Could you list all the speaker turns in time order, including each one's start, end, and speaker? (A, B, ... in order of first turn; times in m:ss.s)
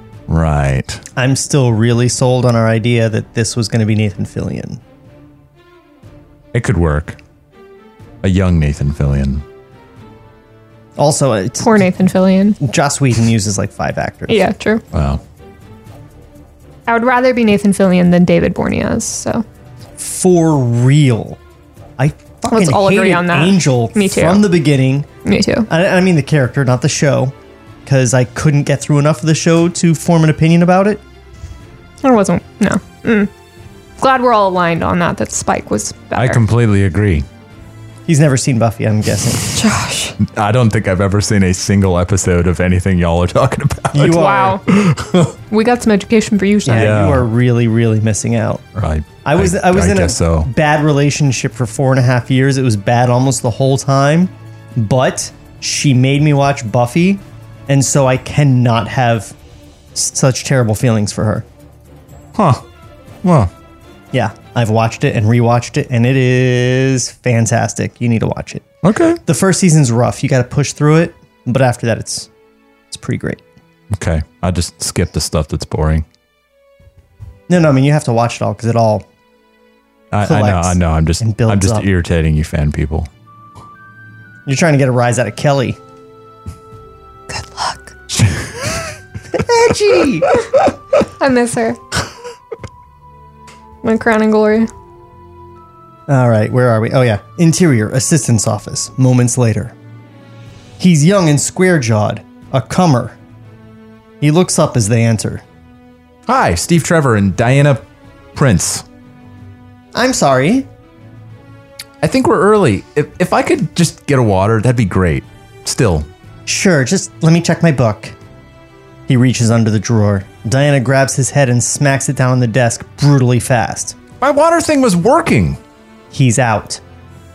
0:00.3-0:01.0 A
0:01.2-0:04.8 B
0:06.5-0:07.2 A
0:08.2-0:09.4 A
0:11.0-0:11.8 B
0:11.6-0:12.6 C
0:12.6-0:14.4 B
0:14.3-0:14.8 C
0:14.9-0:15.2 A
0:16.9-0:19.4 C
0:20.0-0:21.4 B
0:22.0-0:25.1 B
0:22.5-0:24.5 C
0:25.2-0:25.7 C
0:25.7-0:27.3 B
0:27.8-0:31.0 B
0:32.0-0:33.3 C
0:34.0-0:36.4 C
0:36.2-0:37.2 A
0:38.0-0:39.4 B
0:39.5-0:40.2 C
0:40.2-0:45.3 A
0:43.9-0:44.6 B
0:44.0-0:44.6 C
0:45.5-0:47.0 C
0:46.6-0:48.6 B
0:46.8-0:47.3 A
0:48.7-0:50.5 A
0:49.2-0:59.3 B
0:59.9-1:01.4 B
1:02.3-1:02.6 A
1:03.2-1:03.5 A
1:04.1-1:08.6 B
1:08.8-1:09.2 A
1:09.2-1:12.3 B
1:12.9-1:13.4 B
1:13.9-1:16.0 A
1:17.5-1:19.0 B
1:20.1-1:23.1 A
1:20.2-1:21.9 B
1:24.4-1:25.8 B
1:27.3-1:27.9 C
1:28.1-1:28.8 A
1:29.3-1:30.3 B
1:31.2-1:31.8 C
1:33.8-1:34.7 C
1:36.1-1:39.7 B
1:40.8-1:43.2 B
1:44.2-1:45.4 B
1:46.3-1:48.8 A
1:49.9-1:50.7 B
1:52.0-1:56.1 A
1:56.4-1:58.1 B
1:59.1-2:04.0 B
2:04.2-2:05.6 A
2:06.1-2:06.8 B